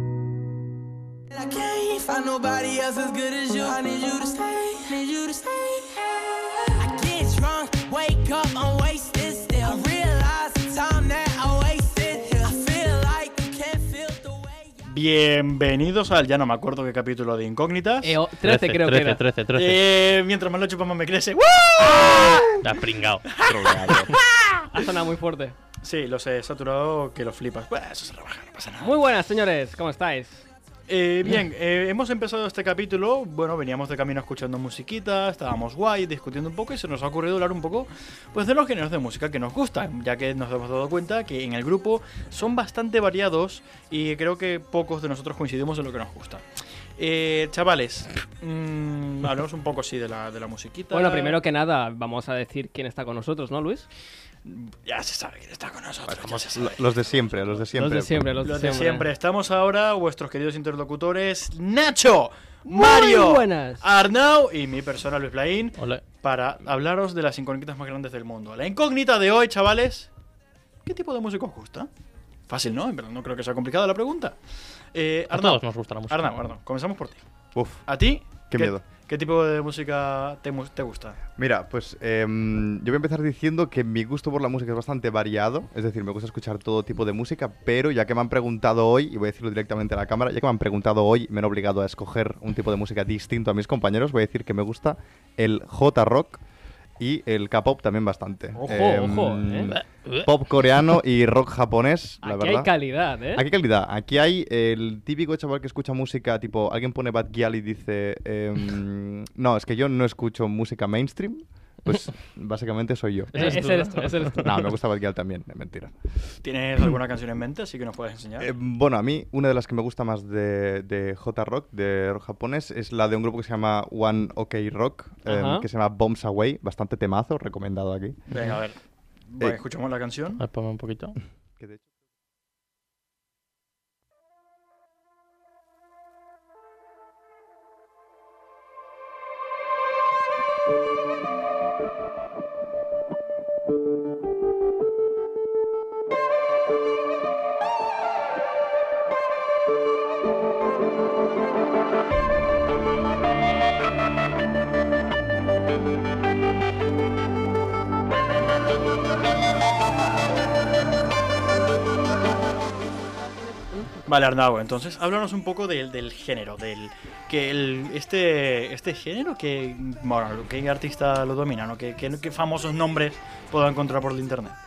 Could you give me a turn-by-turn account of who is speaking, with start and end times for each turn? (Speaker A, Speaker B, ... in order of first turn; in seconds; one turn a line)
Speaker A: 1.3-6.0
Speaker A: 6.6-14.7
Speaker B: 14.8-18.2
Speaker C: 18.0-19.2
Speaker D: 18.4-19.8
Speaker B: 19.5-22.7
Speaker D: 22.6-24.0
Speaker B: 23.3-24.1
Speaker E: 23.4-24.1
Speaker C: 24.7-25.6
Speaker B: 25.8-28.9
Speaker C: 28.8-30.4
Speaker B: 30.9-46.4
Speaker B: 47.0-51.4
Speaker C: 50.9-53.9
Speaker B: 54.5-57.5
Speaker E: 56.0-58.4
Speaker C: 57.8-59.1
Speaker B: 58.4-70.1
Speaker C: 62.7-63.9
Speaker D: 65.8-66.0
Speaker B: 70.8-71.9
Speaker B: 72.5-74.4
Speaker B: 74.9-77.2
Speaker D: 75.3-76.3
Speaker E: 77.5-77.9
Speaker B: 77.9-81.2
Speaker E: 78.5-78.8
Speaker E: 81.4-96.4
Speaker E: 97.0-102.8
Speaker C: 98.5-99.7
Speaker D: 99.7-100.3
Speaker C: 102.2-103.5
Speaker E: 103.3-113.8
Speaker D: 113.3-114.5
Speaker C: 113.3-114.6
Speaker E: 114.4-116.0
Speaker B: 116.4-118.5
Speaker E: 118.4-128.2
Speaker C: 125.3-125.7
Speaker B: 128.3-128.8
Speaker D: 128.3-128.6
Speaker B: 129.3-130.4
Speaker D: 130.4-131.2
Speaker E: 131.6-131.9
Speaker B: 164.1-174.6